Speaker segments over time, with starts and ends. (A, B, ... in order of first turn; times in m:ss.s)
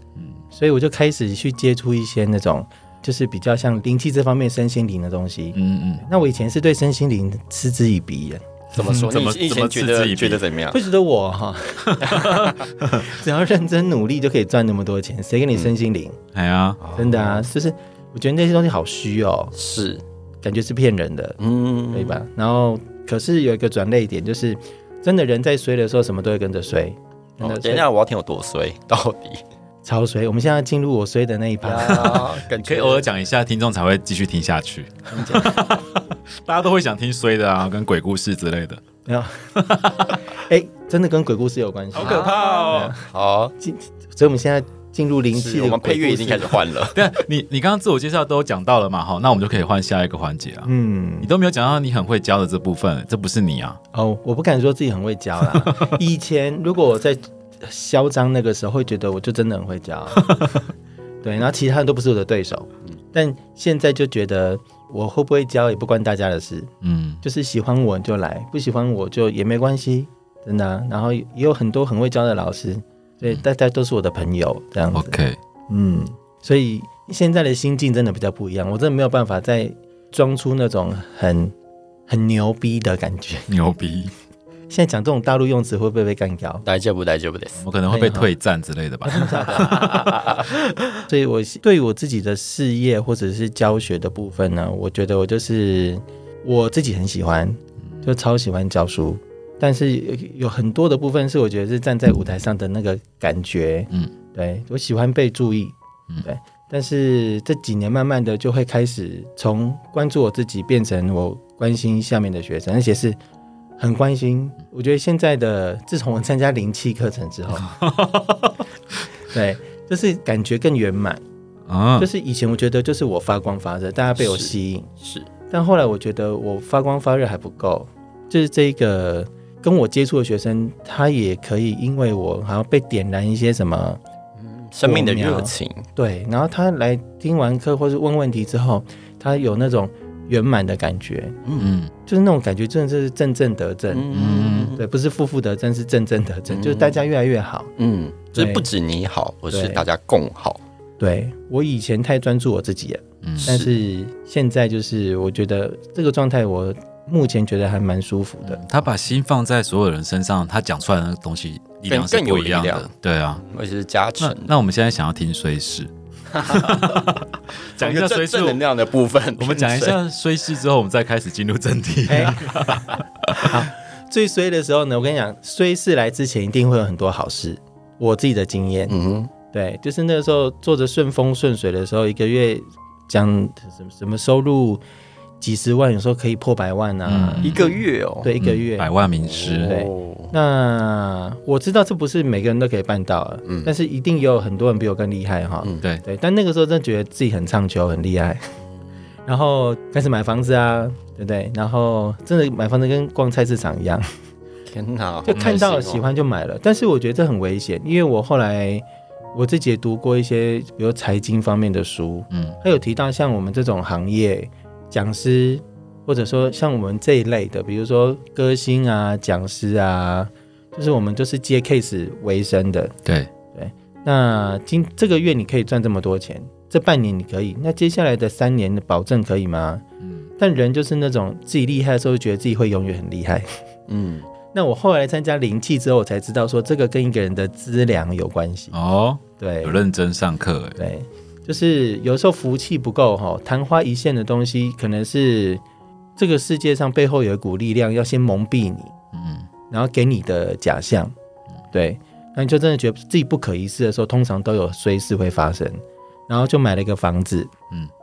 0:00.5-0:08.4 A
0:05.5-0:06.0 B
0:08.7-0:10.4 B
0:08.8-0:10.8 C
0:10.7-0:16.2 A
0:11.9-0:13.0 B
0:16.3-0:16.8 B
0:16.8-0:17.4 C
0:17.0-0:19.6 A
0:19.5-0:20.0 C
0:20.4-0:21.4 A
0:21.4-0:22.2 C
0:21.9-0:27.8 A
0:27.4-0:29.4 C
0:29.8-0:32.3 A
0:31.6-0:33.1 C
0:32.6-0:38.8 B
0:35.1-0:35.6 C
0:35.2-0:35.7 A
0:39.0-0:43.0 A
0:39.6-0:40.2 B
0:41.9-0:42.9 B
0:42.0-0:43.5 C
0:43.6-0:46.6 A
0:45.3-0:47.0 C
0:46.9-0:50.7 B
0:50.6-0:51.3 A
0:51.2-0:53.8 B
0:53.9-1:00.6 A
0:55.5-0:55.9 B
1:01.2-1:06.7 A
1:06.8-1:07.2 B
1:07.2-1:21.5 A
1:14.9-1:15.4 B
1:22.1-1:23.5 A
1:23.5-1:24.1 B
1:24.7-1:26.6 A
1:26.6-1:27.6 C
1:27.6-1:30.2 B
1:27.9-1:28.3 A
1:29.0-1:30.1 A
1:29.5-1:30.8 C
1:31.1-1:53.2 A
1:53.8-1:57.8 A
1:57.6-1:58.6 B
1:59.3-2:01.2 A
2:01.7-2:02.1 B
2:02.0-2:04.9 A
2:04.2-2:05.3 C
2:05.5-2:14.0 A
2:14.4-2:15.9 C
2:14.8-2:21.4 A
2:21.4-2:21.7 C
2:21.6-2:21.9 B
2:22.0-2:24.1 A
2:23.9-2:24.8 C
2:24.1-2:24.8 B
2:24.7-2:27.7 A
2:26.5-2:27.0 C
2:27.8-2:30.6 C
2:28.3-2:28.6 A
2:29.5-2:29.8 A
2:31.0-2:38.6 A
2:33.2-2:33.5 B
2:33.4-2:33.7 C
2:38.4-2:43.4 B
2:41.9-2:44.5 C
2:44.2-2:48.6 B
2:46.3-2:47.1 C
2:47.8-2:50.0 C
2:49.4-2:53.6 B
2:52.1-2:52.5 A
2:53.3-2:59.0 A
2:58.9-2:59.3 C
2:59.5-3:04.8 A
3:05.4-3:08.9 A
3:07.0-3:07.8 B
3:07.4-3:08.4 C
3:08.4-3:09.7 B
3:09.2-3:10.3 C
3:09.6-3:18.5 A
3:13.4-3:13.7 C
3:19.3-3:24.1 A
3:24.7-3:26.0 C
3:25.2-3:42.9 A
3:32.3-3:32.6 B
3:43.5-3:49.8 A
3:50.4-3:53.5 A
3:53.9-3:54.3 C
3:54.5-3:58.7 A
3:58.7-4:00.8 B
3:59.4-3:59.8 A
4:00.8-4:05.6 A
4:06.2-4:08.9 A
4:09.1-4:09.5 B
4:09.7-4:11.1 A
4:11.7-4:17.5 A